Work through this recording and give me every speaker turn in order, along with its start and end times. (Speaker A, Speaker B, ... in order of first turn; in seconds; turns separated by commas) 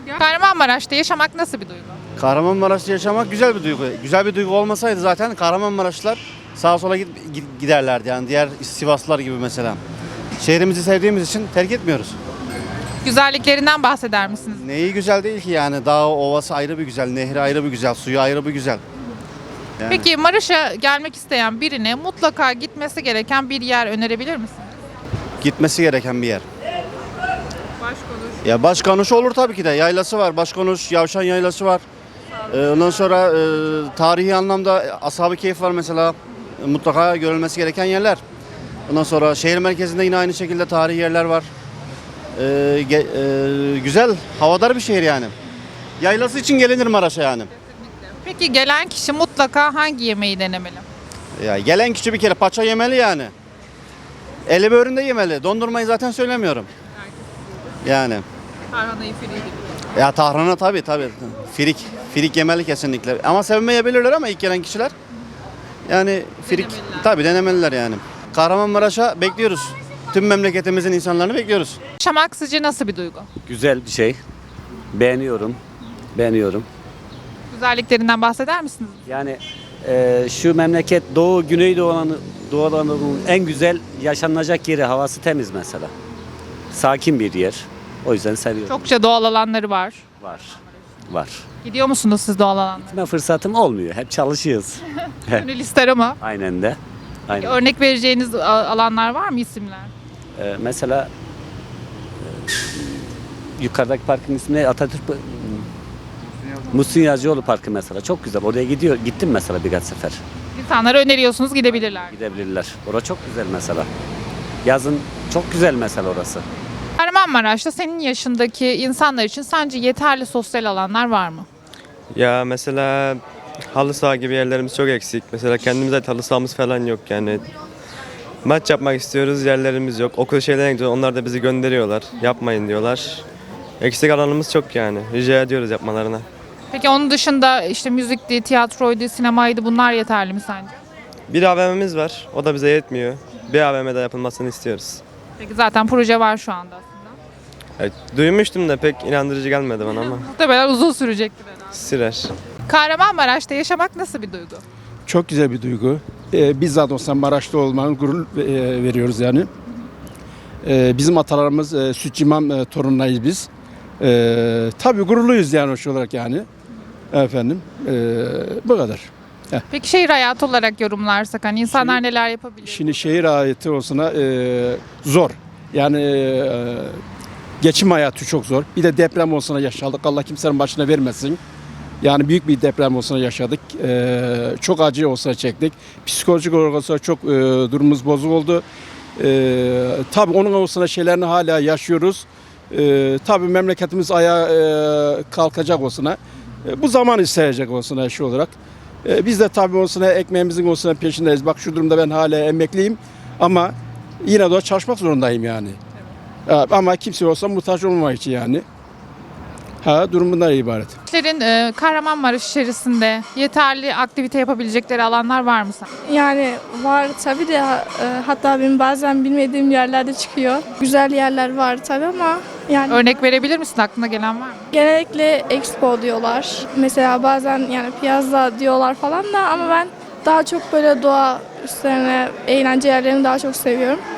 Speaker A: 0.1-2.0, Speaker B: 2.2-9.8, Speaker B: 10.4-12.2, Speaker A: 13.0-14.6, Speaker B: 14.5-18.8, Speaker B: 19.8-20.1, Speaker A: 19.9-24.7, Speaker B: 25.4-26.4, Speaker B: 28.4-31.8, Speaker B: 32.5-38.2, Speaker B: 38.9-41.5, Speaker B: 42.4-45.3, Speaker B: 46.0-47.5, Speaker A: 48.2-50.8, Speaker B: 51.4-53.3, Speaker B: 54.5-56.7, Speaker B: 57.8-58.2, Speaker A: 58.7-59.6, Speaker B: 59.9-64.9, Speaker B: 65.9-71.8, Speaker A: 66.4-67.0, Speaker A: 72.0-73.3, Speaker C: 73.5-74.2, Speaker C: 74.9-75.6, Speaker C: 76.1-76.7, Speaker A: 77.5-79.0, Speaker C: 79.1-85.9, Speaker C: 86.7-88.7, Speaker A: 88.7-90.0, Speaker C: 91.1-91.4, Speaker A: 91.6-93.1, Speaker C: 92.9-94.8, Speaker A: 95.3-96.2, Speaker C: 96.2-97.6, Speaker A: 97.4-99.9, Speaker C: 100.4-101.1, Speaker C: 103.6-105.6, Speaker C: 106.7-110.2, Speaker A: 110.5-112.1, Speaker C: 112.1-113.9, Speaker C: 114.6-116.4, Speaker A: 117.0-121.5, Speaker D: 122.1-127.5, Speaker D: 128.4-133.2, Speaker D: 133.8-136.2, Speaker A: 136.7-140.7, Speaker D: 141.3-145.0, Speaker A: 145.4-147.1, Speaker D: 147.8-150.3, Speaker A: 150.0-151.7, Speaker D: 151.7-152.3, Speaker A: 152.7-154.6, Speaker E: 155.1-159.5, Speaker E: 160.6-163.5, Speaker E: 164.0-166.5, Speaker E: 167.1-169.6, Speaker A: 169.7-173.2, Speaker E: 171.7-172.0, Speaker E: 172.6-177.0, Speaker E: 177.6-181.4, Speaker E: 182.0-188.6, Speaker E: 189.2-205.8, Speaker E: 206.5-208.6, Speaker E: 209.8-210.9, Speaker A: 211.1-215.9, Speaker F: 216.1-223.0, Speaker A: 222.9-224.7, Speaker F: 224.7-234.0